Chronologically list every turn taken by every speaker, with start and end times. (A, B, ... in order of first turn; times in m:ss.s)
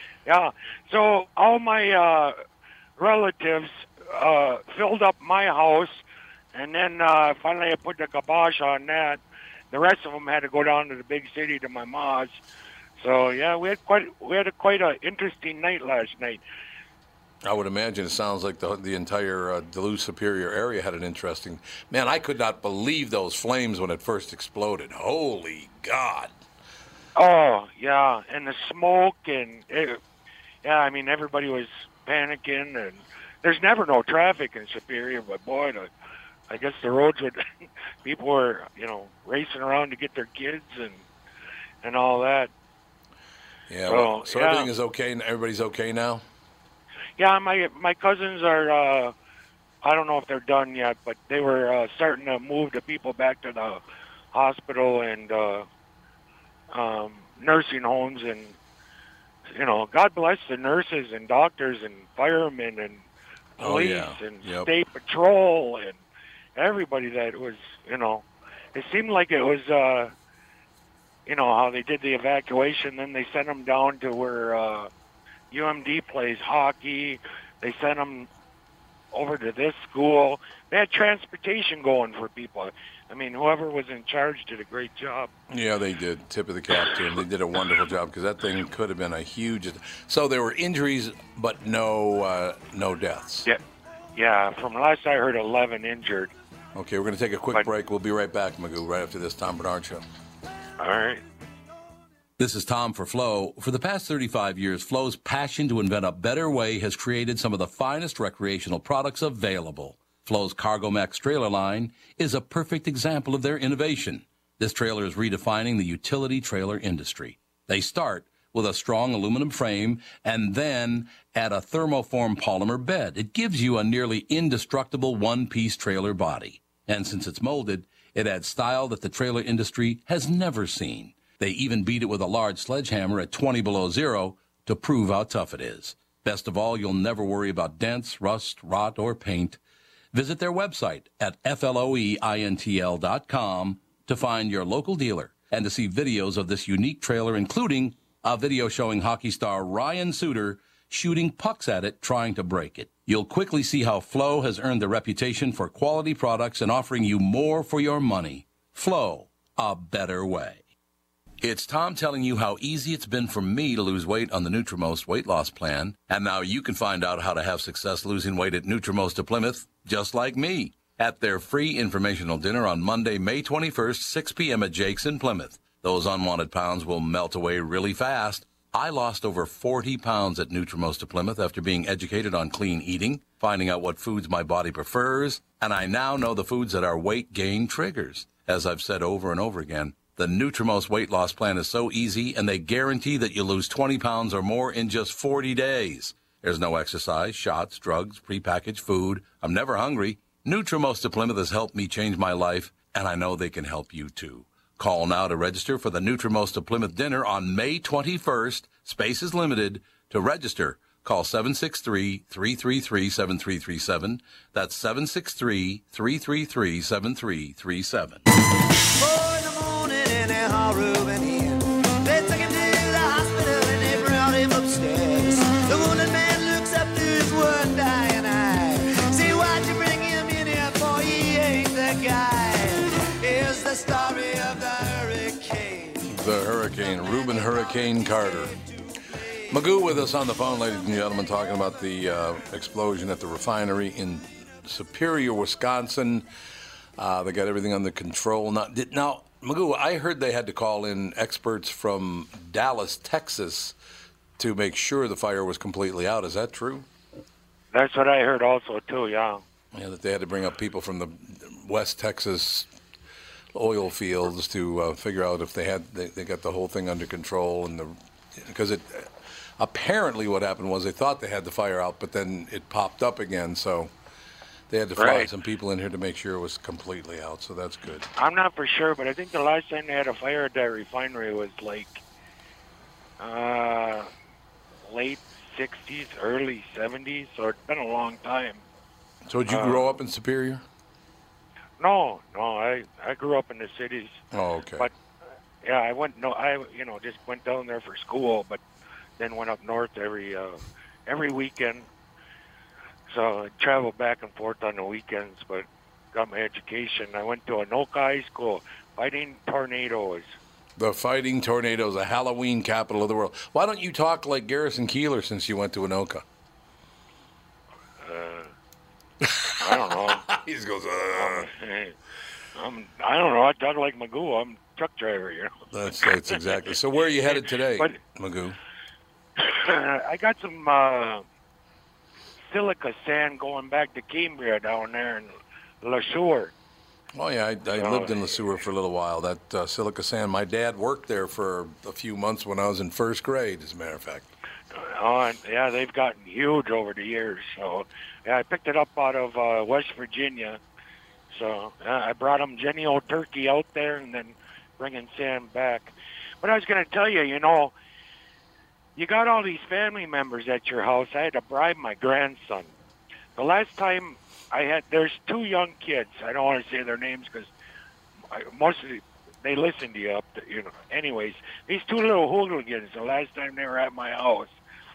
0:00.2-0:02.4 A
0:03.0-0:06.0 A
0:06.5-0:09.2 A
0:09.7-0:12.4 A
0:13.0-0:16.4 A
0:17.4-0:26.3 B
0:27.2-0:30.0 A
0:30.6-0:35.9 A
0:36.5-0:37.4 A
0:38.0-0:41.0 A
0:41.8-0:42.5 A
0:43.7-0:46.2 B
0:43.8-0:44.7 A
0:47.2-0:49.1 A
0:49.8-0:55.7 A
0:56.7-0:58.6 A
0:59.5-1:03.1 A
1:03.6-1:06.0 A
1:03.6-1:04.7 B
1:06.6-1:10.1 A
1:11.2-1:14.9 A
1:15.5-1:18.3 A
1:19.1-1:25.3 A
1:25.5-1:33.5 B
1:34.1-1:36.3 A
1:36.7-1:40.0 B
1:40.8-1:41.2 A
1:42.4-2:19.6 B
2:20.1-2:40.6 B
2:41.4-3:38.2 B
3:39.0-3:56.1 C
3:56.0-3:58.5 B
3:59.5-4:06.3 B
4:07.0-4:13.7 B
4:14.4-4:16.9 B
4:17.7-4:19.4 A
4:19.7-4:22.7 B
4:23.5-4:33.9 B
4:34.7-4:38.1 B
4:35.0-4:35.3 A
4:38.2-4:42.0 A
4:43.2-4:44.1 A
4:44.8-4:48.6 A
4:49.2-4:50.6 B
4:49.5-4:49.9 A
4:51.8-4:54.2 A
4:54.3-4:54.9 B
4:55.6-4:58.6 A
4:59.2-5:01.9 A
5:03.1-5:10.3 A
5:10.8-5:16.2 B
5:18.0-5:18.5 A
5:19.6-5:20.2 A
5:20.0-5:21.5 B
5:21.1-5:22.0 A
5:22.5-5:25.5 A
5:25.7-5:28.6 B
5:26.2-5:26.6 A
5:27.2-5:28.0 A
5:29.4-5:31.2 A
5:32.5-5:36.5 A
5:37.1-5:44.3 B
5:37.8-5:38.3 A
5:44.7-5:50.6 A
5:51.3-5:57.7 A
5:59.0-6:02.7 A
6:03.4-6:07.5 A
6:08.3-6:14.5 A